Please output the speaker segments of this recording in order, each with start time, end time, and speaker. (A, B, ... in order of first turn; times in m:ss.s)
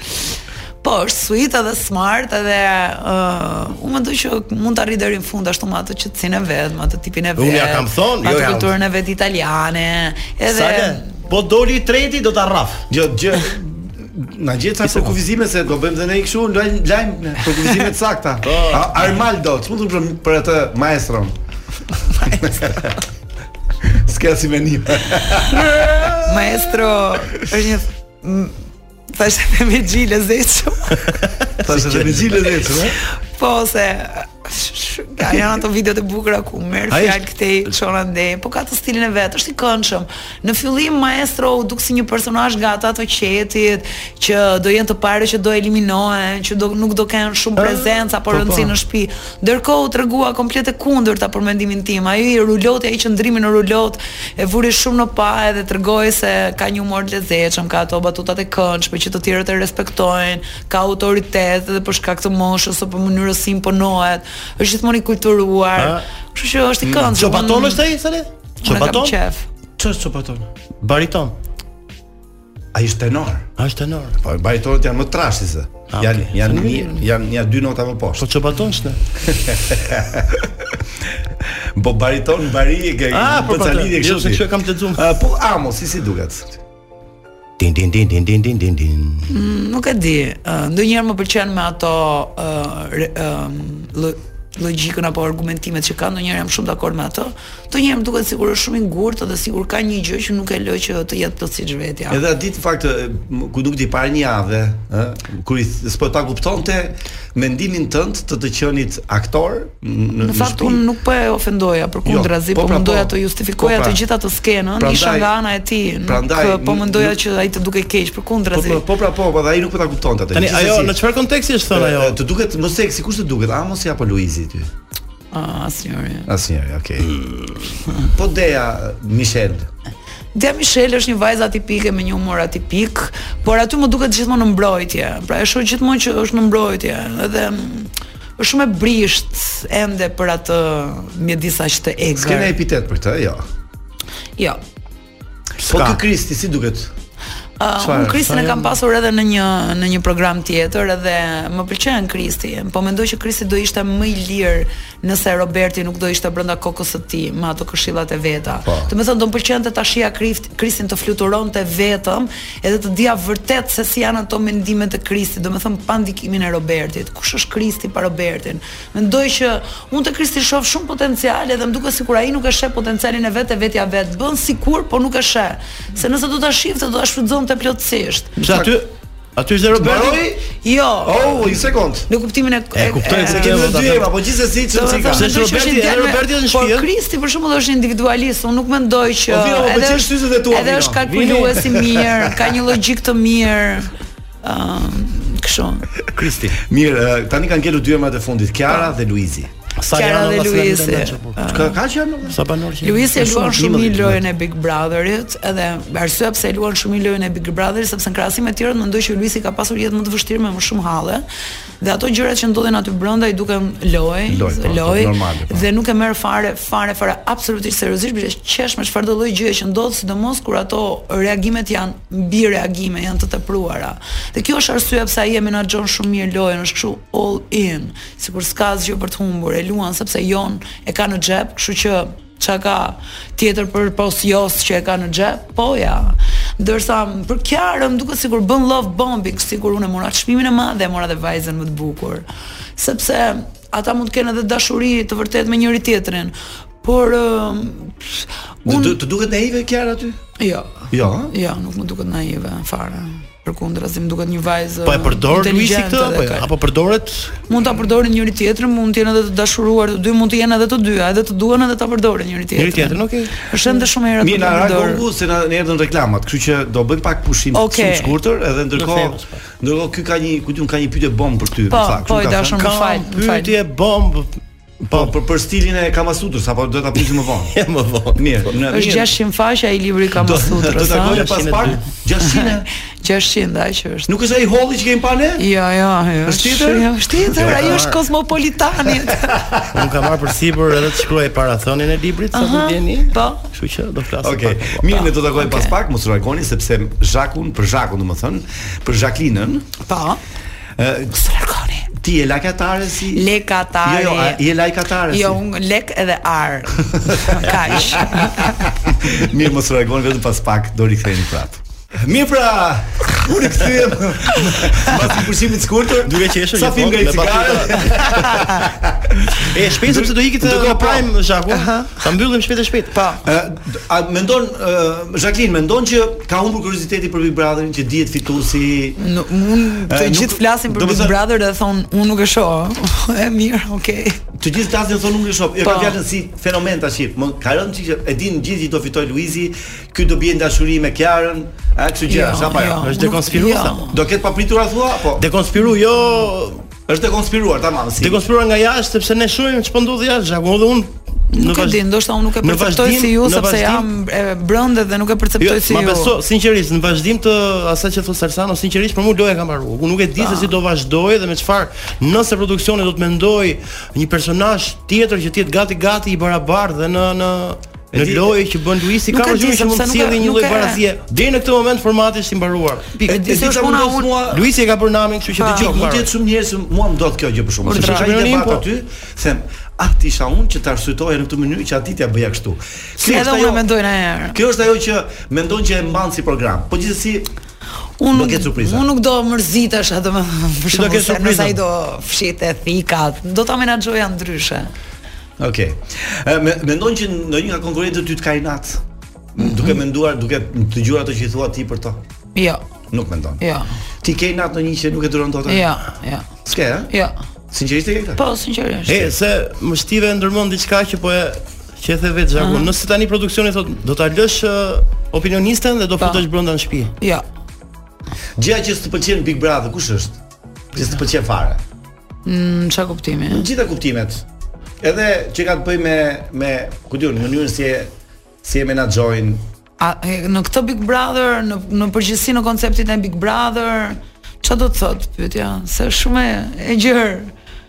0:00.8-0:11.1 A
0:07.4-0:08.7 B
0:10.5-0:12.8 B
0:12.9-0:21.4 C
0:18.4-0:18.9 B
0:22.3-0:22.9 C
0:23.8-0:26.1 C
0:26.2-0:28.5 A
0:29.1-0:31.1 A
0:31.6-0:32.3 B
0:31.6-0:33.0 C
0:33.4-1:07.8 A
0:36.9-0:37.2 B
0:47.6-0:48.7 B
1:05.8-1:06.0 B
1:06.8-1:07.2 C
1:07.1-1:09.2 B
1:08.6-1:09.5 A
1:09.8-1:10.5 C
1:10.8-1:11.4 B
1:12.7-1:13.5 C
1:13.6-1:14.2 B
1:14.2-1:18.3 C
1:15.9-1:17.0 B
1:18.2-1:19.0 B
1:19.2-1:20.5 C
1:21.8-1:26.6 C
1:23.1-1:25.0 B
1:27.6-1:29.3 B
1:29.3-1:42.2 A
1:42.1-1:50.8 C
1:50.2-1:58.8 A
1:52.0-1:54.0 C
1:54.8-1:55.3 C
1:56.0-1:57.2 C
1:58.5-2:01.0 C
2:00.3-2:02.2 B
2:01.7-2:04.7 C
2:05.3-2:06.3 A
2:06.3-2:07.4 C
2:08.0-2:09.7 C
2:10.4-2:22.5 A
2:22.2-2:23.4 C
2:25.6-2:26.0 B
2:25.7-2:26.9 C
2:27.6-2:58.4 A
2:27.8-2:28.2 C
2:28.2-2:28.8 B
2:38.7-2:38.9 C
2:58.4-3:00.2 B
2:58.4-2:58.8 C
2:59.7-3:00.5 C
3:00.6-3:03.9 A
3:01.0-3:02.1 C
3:02.7-3:04.1 B
3:03.1-3:05.3 C
3:04.7-3:13.9 A
3:05.1-3:06.9 B
3:09.3-3:12.0 C
3:11.1-3:11.6 B
3:14.4-3:15.9 A
3:16.1-3:16.6 B
3:16.6-3:19.5 C
3:19.8-3:21.4 B
3:19.9-3:21.8 A
3:21.5-3:22.4 C
3:22.3-3:23.2 B
3:22.8-3:31.3 A
3:23.1-3:24.2 C
3:31.8-4:02.3 A
3:34.3-3:35.7 C
4:02.8-4:09.0 A
4:08.6-4:10.2 C
4:10.4-4:16.5 A
4:10.9-4:11.3 C
4:14.8-4:17.4 B
4:17.5-4:25.0 A
4:22.6-4:23.4 B
4:24.2-4:32.6 C
4:27.5-4:28.2 A
4:28.8-4:29.3 B
4:31.7-4:33.5 A
4:32.6-4:34.3 B
4:34.9-4:37.6 C
4:37.5-4:38.2 B
4:38.2-4:39.1 C
4:38.7-4:41.2 A
4:40.2-4:42.7 C
4:40.9-4:41.8 B
4:42.2-4:44.1 A
4:44.1-4:45.5 C
4:45.4-4:49.3 A
4:46.2-4:47.8 C
4:47.4-4:48.0 B
4:49.7-4:55.0 B
4:52.3-4:53.4 A
4:54.2-4:59.7 C
4:55.4-4:55.8 A
4:59.9-5:00.2 A
5:00.8-5:01.2 C
5:01.2-5:01.9 A
5:01.9-5:03.3 C
5:03.1-5:04.4 A
5:03.8-5:05.4 C
5:05.1-5:08.6 A
5:07.2-5:08.2 C
5:08.8-5:21.1 C
5:16.0-5:18.3 B
5:19.3-5:23.0 B
5:21.5-5:22.0 A
5:22.9-5:23.2 A
5:23.2-5:29.0 C
5:29.0-5:34.2 A
5:29.9-5:31.2 C
5:34.4-5:42.9 C
5:35.6-5:36.0 A
5:42.1-5:44.0 A
5:42.8-5:43.8 B
5:43.9-5:45.3 C
5:45.2-5:46.7 B
5:46.9-5:48.2 C
5:48.0-5:51.8 B
5:51.3-5:56.2 A
5:52.4-5:53.9 B
5:55.4-6:13.2 B
6:00.2-6:00.5 A
6:07.9-6:08.4 C
6:09.1-6:10.8 A
6:13.1-6:14.1 A
6:13.1-6:14.5 C
6:14.3-6:16.1 B
6:15.4-6:15.8 A
6:15.4-6:23.6 C
6:17.6-6:18.1 A
6:17.7-6:18.6 B
6:23.0-6:24.4 A
6:24.3-6:27.3 C
6:28.0-6:34.7 A
6:28.1-6:28.9 C
6:30.7-6:31.6 B
6:35.4-6:38.8 C
6:39.4-6:42.0 C
6:39.4-6:39.8 A
6:42.4-6:42.6 A
6:42.9-6:43.4 C
6:43.4-6:43.7 A
6:44.0-6:45.7 C
6:45.5-6:46.3 A
6:46.4-6:46.9 C
6:46.9-6:47.2 A
6:47.5-6:48.2 C
6:48.2-6:49.1 A
6:48.9-6:56.9 B
6:52.4-6:52.7 A
6:56.0-6:56.3 A
6:57.0-6:57.2 A
6:58.4-7:00.2 C
7:00.7-7:01.6 C
7:02.2-7:03.5 A
7:03.3-7:04.2 C
7:04.8-7:07.9 C
7:08.4-7:09.4 C
7:09.8-7:17.3 A